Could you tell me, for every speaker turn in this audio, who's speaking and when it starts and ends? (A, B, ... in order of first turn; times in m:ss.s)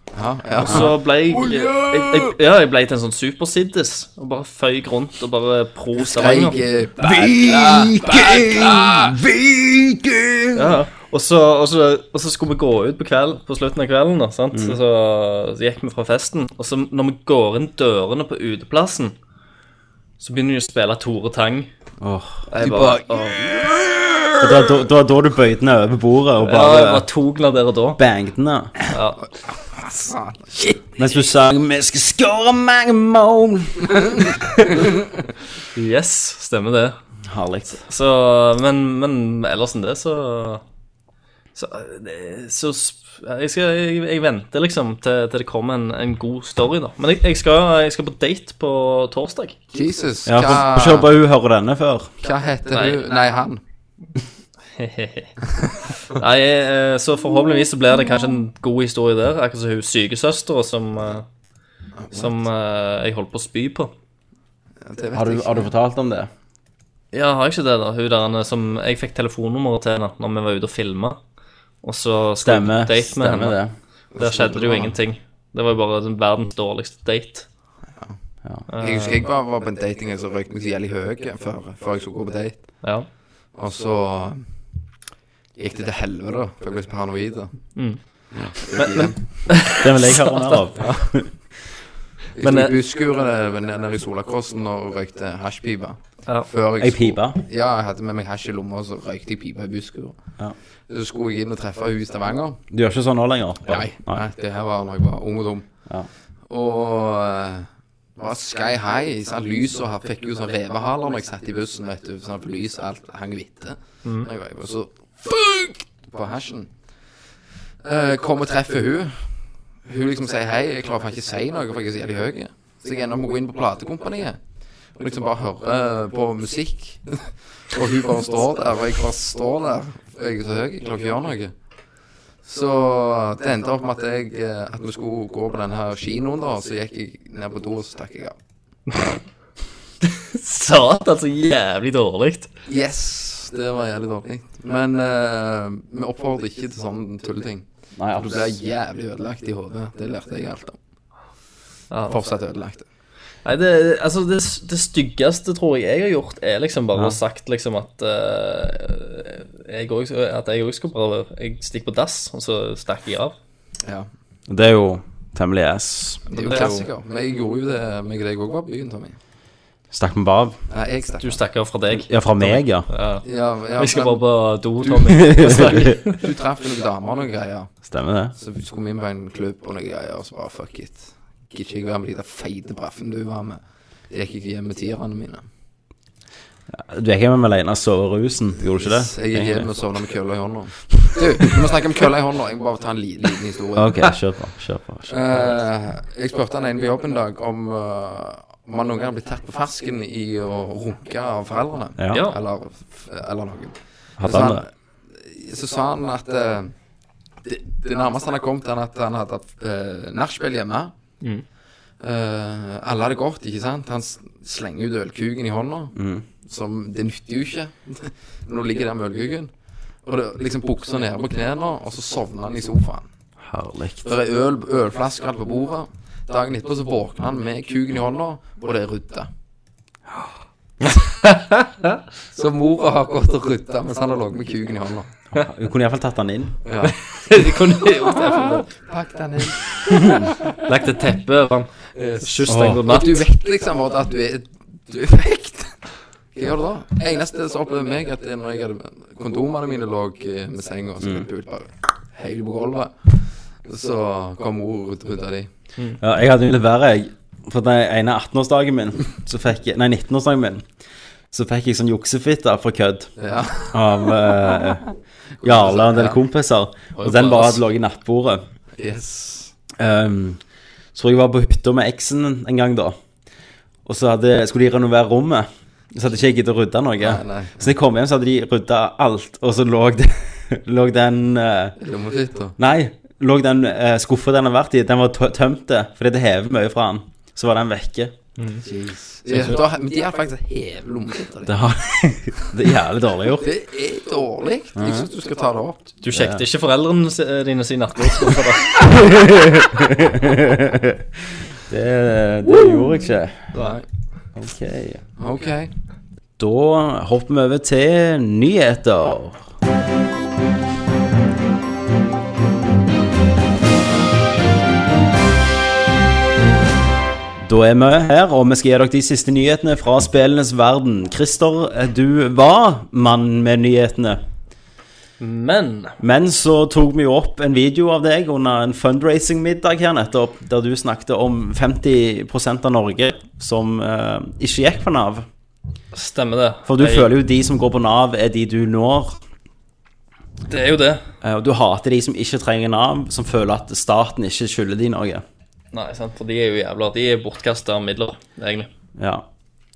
0:00.1-0:02.2 A
0:00.6-0:06.6 B
0:06.0-0:09.2 A
0:07.0-0:10.7 C
0:10.5-0:19.1 B
0:14.5-0:14.8 C
0:20.2-0:21.7 B
0:22.0-0:22.4 C
0:22.5-0:23.5 B
0:22.6-0:24.3 A
0:24.4-0:27.0 C
0:26.4-0:28.0 B
0:28.0-0:28.7 C
0:28.9-0:29.2 B
0:29.3-0:30.8 A
0:31.0-0:34.3 C
0:35.7-0:37.0 B
0:37.3-0:37.8 C
0:37.8-0:40.6 B
0:41.5-0:49.6 B
0:49.7-0:51.1 A
0:50.2-0:52.1 C
0:52.2-0:53.6 A
0:52.7-0:53.0 B
0:54.7-0:55.3 B
0:55.9-1:01.2 B
1:02.0-1:02.3 A
1:02.1-1:03.9 B
1:04.8-1:05.7 A
1:05.1-1:06.3 C
1:07.1-1:11.2 B
1:11.8-1:13.6 B
1:12.4-1:13.7 C
1:14.2-1:14.9 A
1:14.2-1:17.4 B
1:18.7-1:19.2 B
1:18.8-1:22.8 A
1:23.6-1:24.4 A
1:25.6-1:27.5 A
1:27.7-1:28.0 B
1:28.4-1:29.2 A
1:28.7-1:30.6 B
1:29.8-1:31.3 C
1:32.3-1:40.2 A
1:32.4-1:32.7 B
1:36.8-1:37.4 C
1:40.9-1:42.6 A
1:42.7-1:44.2 C
1:43.6-1:45.6 A
1:46.5-1:56.7 A
1:57.8-2:04.4 A
2:05.0-2:11.5 A
2:12.4-2:18.3 A
2:20.0-2:22.5 B
2:22.7-2:30.8 A
2:28.0-2:28.5 C
2:31.9-2:32.2 B
2:32.0-2:32.8 A
2:33.4-2:43.4 B
2:44.5-2:46.2 C
2:46.3-2:49.2 A
2:46.4-2:46.9 B
2:49.9-2:50.6 C
2:50.7-2:51.4 A
2:51.2-2:53.2 B
2:51.9-2:52.9 C
2:53.2-2:54.2 A
2:53.8-2:56.2 B
2:54.8-2:57.7 A
2:55.1-2:55.9 C
2:57.9-2:58.3 C
2:58.3-3:05.4 A
3:06.7-3:09.7 C
3:08.8-3:14.1 A
3:13.8-3:15.1 C
3:15.1-3:26.7 A
3:22.0-3:22.2 C
3:22.1-3:22.4 B
3:24.2-3:24.6 C
3:27.4-3:30.9 A
3:32.0-3:39.5 A
3:35.9-3:36.2 C
3:40.0-3:43.0 A
3:43.4-3:44.0 C
3:44.0-3:49.3 A
3:51.2-3:51.9 B
3:52.3-3:55.1 A
3:55.3-3:56.6 C
3:56.6-3:57.0 A
3:56.8-3:58.7 B
3:58.7-4:00.3 A
4:00.5-4:03.2 B
4:01.9-4:05.8 A
4:02.5-4:02.8 C
4:06.3-4:15.5 A
4:16.0-4:20.6 C
4:21.3-4:23.1 C
4:23.2-4:23.8 A
4:23.7-4:24.9 C
4:25.4-4:26.2 A
4:25.4-4:28.4 C
4:27.0-4:27.6 B
4:28.8-4:29.5 A
4:29.8-4:30.4 C
4:30.9-4:33.0 C
4:33.8-4:41.8 C
4:37.0-4:37.7 A
4:41.8-4:42.5 A
4:42.6-4:48.1 C
4:48.4-4:48.6 B
4:48.6-4:51.6 A
4:51.4-4:53.5 C
4:53.4-4:55.8 A
4:54.8-4:55.1 C
4:56.0-4:58.8 B
4:56.1-4:56.4 C
4:58.9-5:01.0 C
5:01.7-5:03.5 C
5:03.5-5:03.8 A
5:04.4-5:05.0 C
5:05.2-5:05.7 A
5:06.4-5:09.4 C
5:17.4-5:24.2 C
5:25.2-5:26.0 B
5:26.0-5:35.2 C
5:35.9-5:37.1 B
5:36.6-5:39.2 C
5:40.5-5:41.0 B
5:41.2-5:45.2 C
5:45.7-5:48.7 B
5:49.0-5:49.2 C